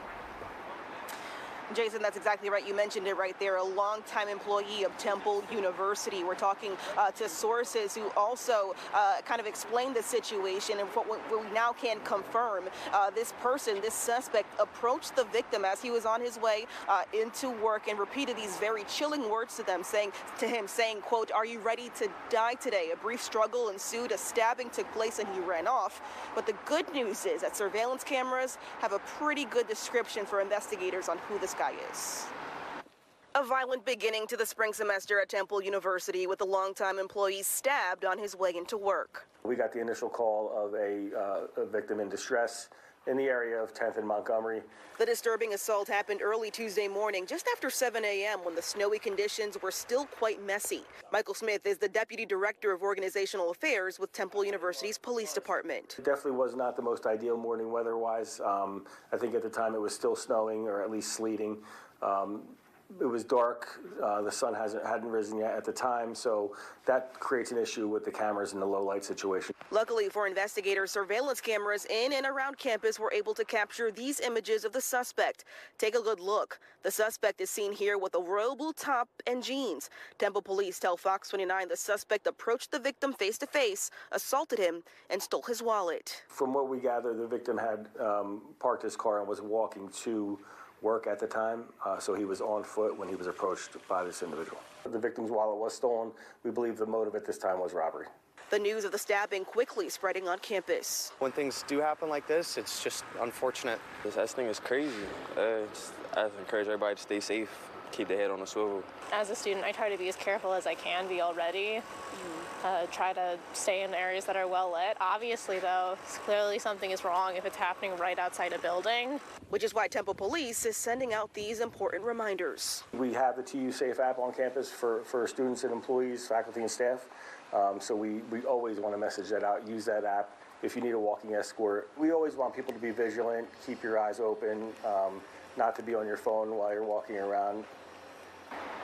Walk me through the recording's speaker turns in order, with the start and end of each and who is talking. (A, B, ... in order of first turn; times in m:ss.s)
0:01.7-0:32.3 A
0:33.4-0:39.3 A
0:39.4-0:44.7 B
0:45.0-0:56.0 A
0:56.0-1:09.5 B
1:09.7-1:26.2 A
1:26.3-1:38.1 B
1:38.5-1:41.2 A
1:41.2-1:43.9 C
1:44.0-1:48.9 D
1:49.1-1:51.8 E
1:52.1-1:52.5 A
1:52.6-1:59.2 E
1:59.5-2:02.8 A
2:02.9-2:17.7 B